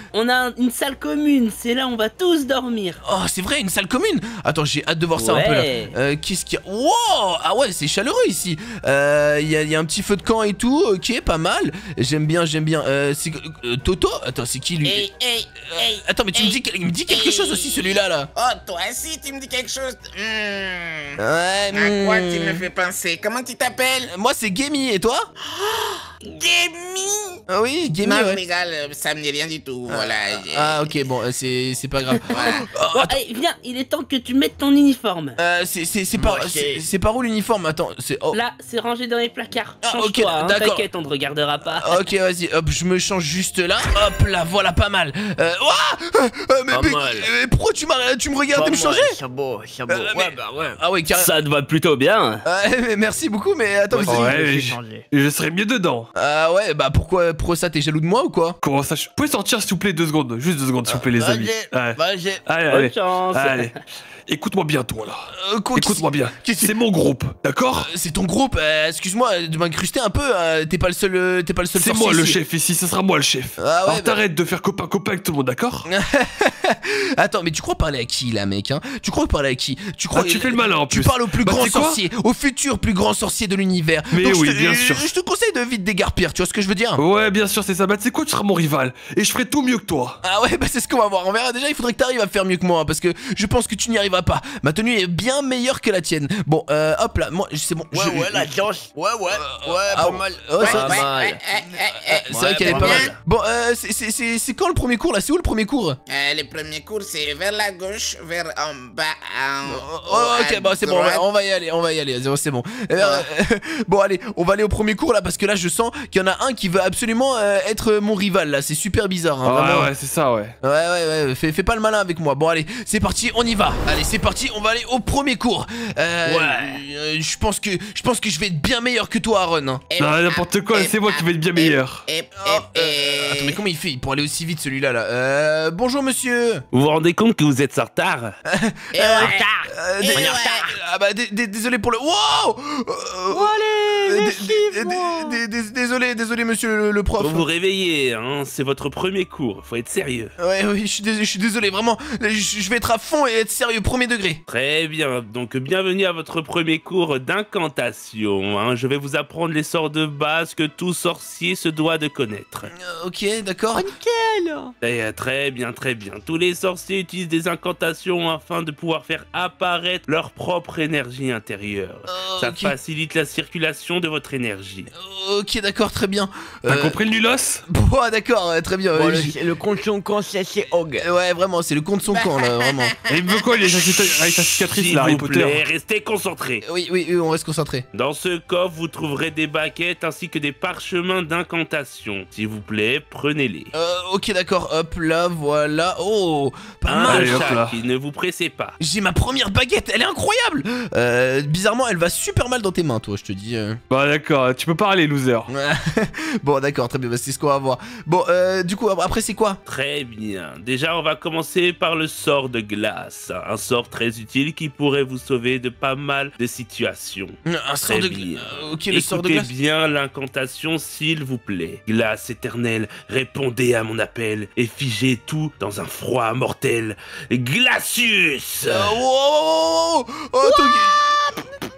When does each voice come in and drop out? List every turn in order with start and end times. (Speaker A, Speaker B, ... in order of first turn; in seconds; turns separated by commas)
Speaker A: 0.1-3.0, Speaker B: 3.0-15.1, Speaker A: 5.2-5.9, Speaker C: 14.8-16.6, Speaker B: 15.7-18.3, Speaker C: 17.1-21.2, Speaker B: 21.2-22.6, Speaker C: 21.7-24.1, Speaker B: 24.1-25.3, Speaker C: 25.5-27.4, Speaker B: 27.5-28.4, Speaker C: 28.0-30.9, Speaker B: 29.9-33.2, Speaker C: 32.3-32.7, Speaker A: 33.0-35.4, Speaker B: 35.4-38.4, Speaker D: 36.2-36.8, Speaker A: 38.3-42.0, Speaker B: 39.8-40.8, Speaker B: 41.8-49.2, Speaker D: 46.7-47.3, Speaker D: 48.5-50.8, Speaker B: 49.9-51.3, Speaker A: 51.2-52.4, Speaker B: 52.5-54.4, Speaker D: 53.9-55.1, Speaker E: 54.1-56.1, Speaker B: 56.2-58.6, Speaker E: 58.6-63.7, Speaker D: 61.1-62.4, Speaker A: 62.7-63.8, Speaker E: 64.3-67.9, Speaker B: 65.3-66.7, Speaker B: 67.8-72.4, Speaker E: 71.8-75.9, Speaker B: 73.6-74.2, Speaker B: 75.9-87.0, Speaker E: 80.1-82.0, Speaker E: 84.1-85.1, Speaker E: 87.0-90.2, Speaker B: 90.2-98.5, Speaker D: 97.9-101.4, Speaker B: 99.4-101.1, Speaker C: 100.6-103.1, Speaker B: 102.0-106.0, Speaker F: 102.6-103.2, Speaker C: 106.1-111.2, Speaker B: 109.7-119.9, Speaker C: 113.0-113.2, Speaker E: 119.4-120.5, Speaker B: 120.6-129.8, Speaker D: 126.2-126.8, Speaker C: 129.9-133.6, Speaker E: 130.0-132.0, Speaker B: 132.4-136.6, Speaker F: 136.7-138.3, Speaker B: 138.5-147.5, Speaker C: 138.9-139.5, Speaker D: 139.2-140.4, Speaker C: 140.0-140.7, Speaker D: 143.3-145.4, Speaker F: 147.2-150.3, Speaker B: 150.4-154.4, Speaker F: 154.5-162.7, Speaker B: 162.7-163.9, Speaker D: 163.8-164.7, Speaker F: 164.8-174.9, Speaker B: 172.1-172.7, Speaker B: 174.9-177.0, Speaker E: 176.7-177.6, Speaker B: 177.7-179.3, Speaker D: 178.9-181.1, Speaker B: 181.0-182.9, Speaker C: 182.1-184.1, Speaker E: 183.1-185.6, Speaker F: 184.7-186.6, Speaker B: 186.7-187.8, Speaker F: 187.9-193.7, Speaker B: 193.7-197.6, Speaker F: 196.8-198.8, Speaker E: 197.0-197.8, Speaker B: 198.8-203.8, Speaker E: 203.9-205.5, Speaker B: 205.5-209.6, Speaker F: 209.7-217.3, Speaker B: 217.5-219.5, Speaker F: 217.9-228.9, Speaker B: 228.7-231.0, Speaker D: 230.9-231.3